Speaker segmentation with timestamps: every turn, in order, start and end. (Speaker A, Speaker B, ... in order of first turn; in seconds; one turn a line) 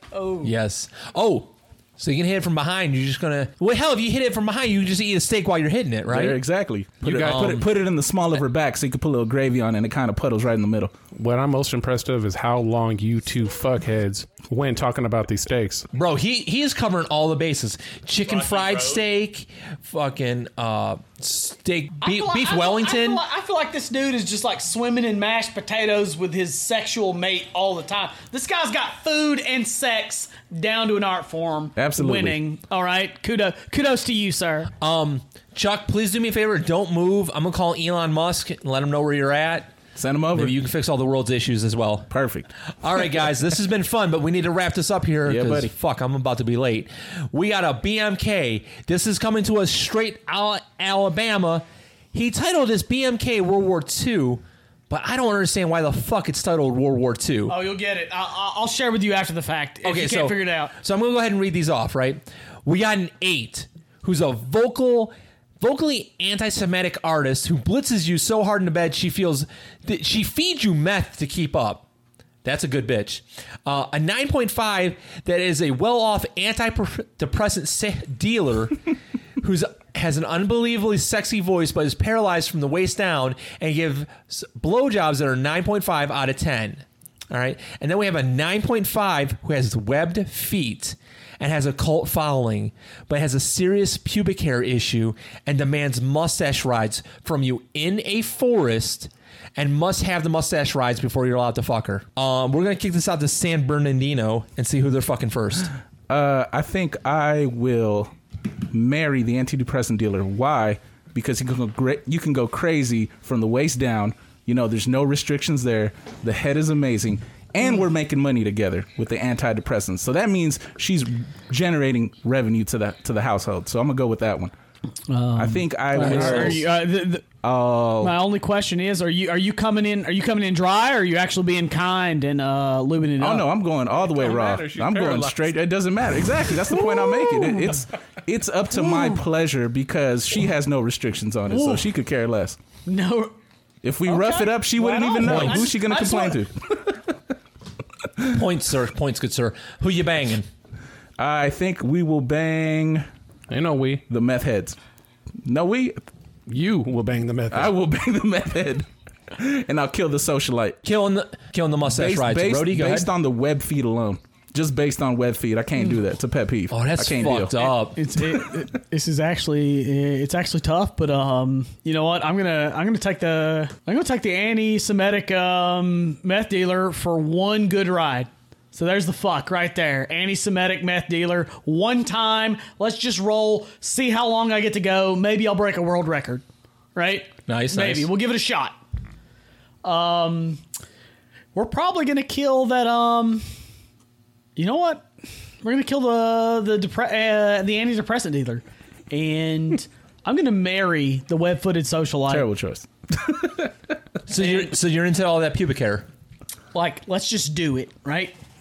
Speaker A: 0.1-0.5
Speaker B: 0.4-6.4
Speaker C: 6.1-10.9
Speaker D: 7.0-7.6
Speaker B: 7.2-7.7
Speaker D: 11.1-15.8
Speaker B: 15.9-23.2
Speaker A: 22.0-34.7
Speaker C: 31.8-32.4
Speaker B: 34.8-39.7
Speaker C: 39.9-40.5
Speaker B: 40.3-42.1
Speaker C: 42.1-42.5
Speaker B: 42.8-57.5
Speaker C: 45.2-45.7
Speaker A: 57.5-60.7
Speaker B: 59.8-71.9
Speaker B: 72.4-78.8
Speaker B: 79.4-105.7
Speaker C: 106.1-124.5
Speaker A: 125.1-127.3
Speaker C: 125.3-126.8
Speaker C: 127.4-128.2
Speaker A: 128.0-133.5
Speaker C: 133.2-142.6
Speaker D: 134.1-135.5
Speaker A: 136.7-137.8
Speaker A: 138.8-139.2
Speaker A: 141.5-141.9
Speaker A: 142.8-143.3
Speaker C: 143.8-147.1
Speaker A: 144.0-146.4
Speaker B: 145.2-145.7
Speaker B: 148.2-150.5
Speaker C: 151.2-153.1
Speaker D: 153.5-154.0
Speaker C: 154.1-154.8
Speaker C: 155.4-156.0
Speaker D: 156.5-157.7
Speaker C: 157.5-160.8
Speaker B: 160.8-163.1
Speaker C: 161.8-167.7
Speaker B: 166.7-168.0
Speaker A: 167.9-186.4
Speaker A: 186.9-188.8
Speaker B: 187.5-188.1
Speaker A: 189.8-190.6
Speaker A: 191.5-193.4
Speaker A: 194.6-195.1
Speaker A: 195.6-202.5
Speaker C: 202.3-203.7
Speaker B: 204.3-206.1
Speaker A: 204.4-204.7
Speaker A: 206.7-208.3